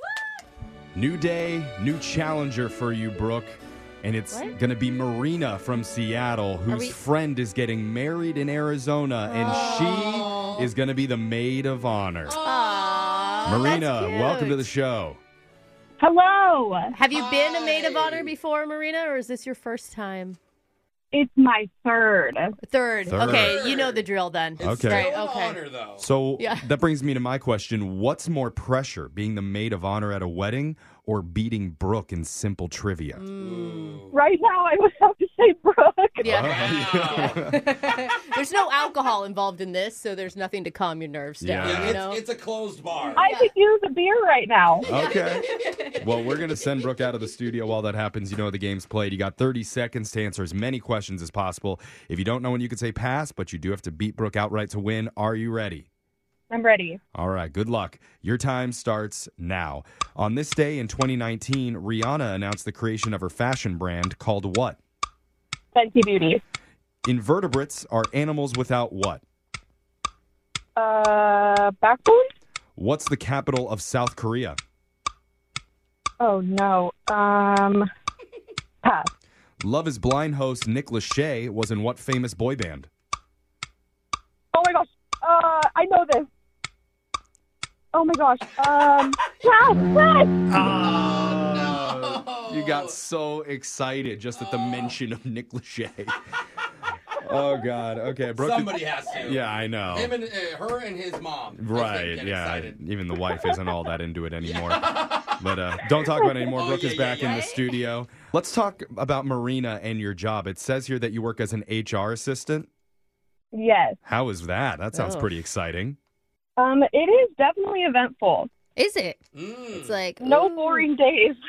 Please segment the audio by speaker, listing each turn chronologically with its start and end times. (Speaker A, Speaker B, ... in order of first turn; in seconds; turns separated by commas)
Speaker A: 0.9-12.4, Speaker B: 6.7-7.0, Speaker B: 9.3-10.5, Speaker C: 9.4-10.6, Speaker C: 12.2-13.7, Speaker B: 12.4-14.7, Speaker A: 13.4-15.2, Speaker D: 16.0-16.9, Speaker B: 16.9-20.4, Speaker C: 17.1-18.3, Speaker D: 21.1-22.6, Speaker B: 22.6-25.6, Speaker A: 23.1-23.6, Speaker C: 23.1-24.0, Speaker A: 24.6-25.1, Speaker C: 24.6-26.1, Speaker A: 26.0-33.2, Speaker B: 26.4-26.7, Speaker B: 33.1-34.0, Speaker C: 33.4-34.2, Speaker D: 34.1-36.2, Speaker A: 36.2-37.6, Speaker B: 36.2-42.2, Speaker C: 36.4-37.4, Speaker A: 41.4-42.0, Speaker C: 41.6-43.2, Speaker D: 43.1-44.8, Speaker B: 43.2-43.5, Speaker A: 44.8-55.9, Speaker B: 44.9-46.4, Speaker D: 56.5-57.0, Speaker A: 57.1-64.8, Speaker D: 65.7-66.4, Speaker A: 67.0-69.2, Speaker D: 70.8-72.2, Speaker A: 72.8-74.6, Speaker D: 76.2-77.9, Speaker D: 78.8-79.1, Speaker A: 79.6-82.9, Speaker D: 84.5-86.3, Speaker D: 87.9-90.4, Speaker A: 90.5-96.2, Speaker C: 90.5-93.0, Speaker C: 94.3-94.9, Speaker A: 97.2-100.2, Speaker C: 98.3-102.8, Speaker A: 101.6-112.7, Speaker C: 104.4-107.8, Speaker D: 113.5-114.0, Speaker A: 114.0-116.0, Speaker B: 114.9-115.3, Speaker D: 116.6-118.5, Speaker B: 118.8-119.2, Speaker C: 119.3-120.0, Speaker B: 119.7-120.9, Speaker D: 120.2-121.4